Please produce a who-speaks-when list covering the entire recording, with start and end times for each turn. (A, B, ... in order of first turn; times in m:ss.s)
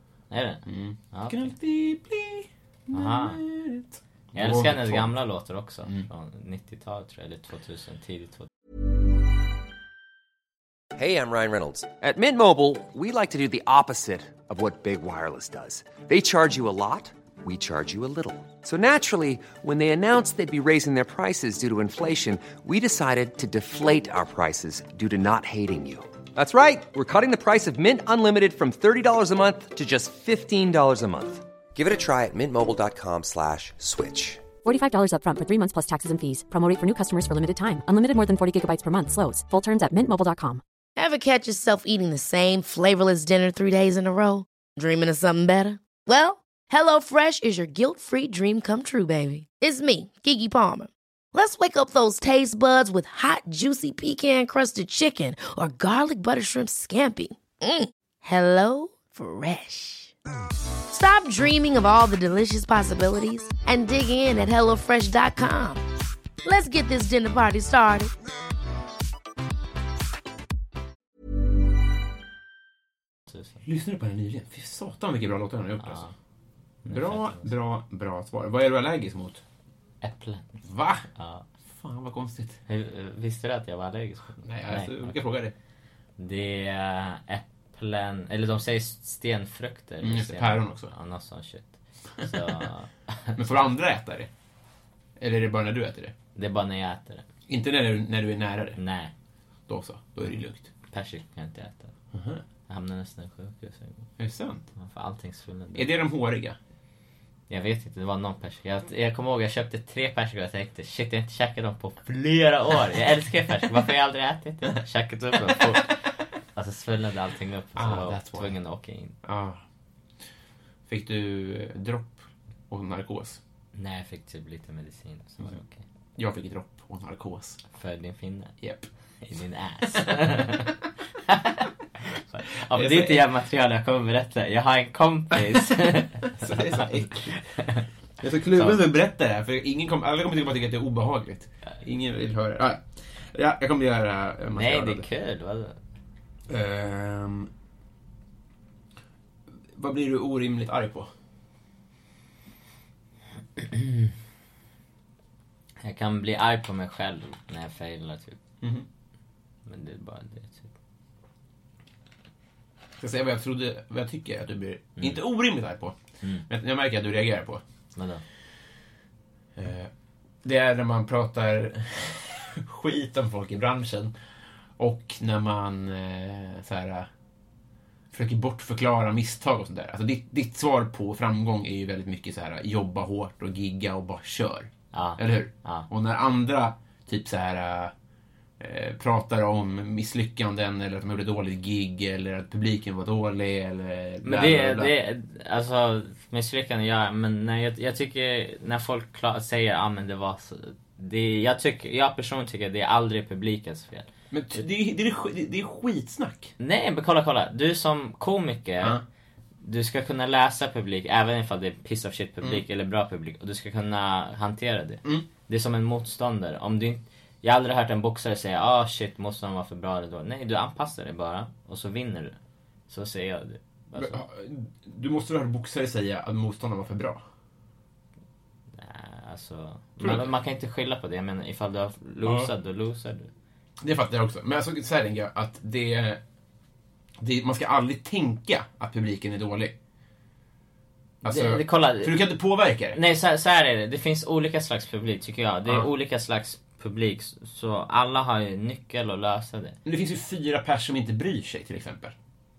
0:00.3-0:01.5 A
0:00.7-0:05.1 B
0:02.9-0:03.4 A
0:04.3-0:08.5 A
0:10.9-0:34.4 C
0:34.6-0:40.6 D
0:41.0-1:00.1 E
1:00.9-1:05.8 E
1:06.4-1:08.1 E
1:13.3-1:13.6 A
1:13.6-1:16.0 B
1:15.8-1:16.1 A
1:16.8-1:17.5 A
1:16.9-1:19.4 B
1:20.0-1:20.6 A
1:20.6-1:21.1 B
1:21.2-1:21.4 A
1:21.6-1:22.6 B
1:22.7-1:25.1 A
1:24.4-1:25.5 B
1:26.2-1:33.6 A
1:30.0-1:30.9 B
1:33.4-1:34.3 B
1:35.2-1:36.1 B
1:36.3-1:37.2 A
1:37.5-1:38.8 B
1:38.8-1:39.1 A
1:39.7-1:40.7 B
1:40.9-1:41.9 A
1:42.1-1:42.4 B
1:42.7-1:44.1 A
1:44.2-1:44.7 B
1:44.8-1:45.9 A
1:45.7-1:46.6 B
1:47.5-1:59.1 A
1:57.8-1:58.6 B
1:59.2-1:59.6 B
2:00.9-2:03.4 B
2:03.7-2:05.8 A
2:06.2-2:07.6 B
2:07.7-2:08.5 A
2:08.6-2:08.9 B
2:09.2-2:17.9 A
2:10.0-2:10.5 B
2:12.7-2:13.2 B
2:16.4-2:17.4 B
2:18.2-2:25.0 B
2:18.5-2:18.8 A
2:24.5-2:25.8 A
2:26.5-2:27.5 B
2:29.7-2:31.1 B
2:35.8-2:38.4 A
2:38.6-2:38.8 B
2:39.6-2:40.7 A
2:43.0-2:47.6 B
2:47.9-2:48.2 A
2:49.6-2:49.9 B
2:50.4-2:54.1 B
2:54.8-2:57.1 B
2:58.1-3:07.9 B
3:04.9-3:05.9 A
3:08.6-3:14.9 B
3:14.2-3:24.1 A
3:24.3-3:26.5 B
3:26.6-3:29.0 A
3:29.6-3:42.4 A
3:42.9-3:44.2 A
3:44.0-3:47.2 B
3:48.7-3:53.3 A
3:50.0-3:50.3 B
3:52.2-3:52.5 B
3:53.8-3:56.2 B
3:57.2-3:59.7 B
4:01.2-4:02.3 A
4:01.2-4:03.0 B
4:02.9-4:09.8 A
4:09.8-4:12.2 B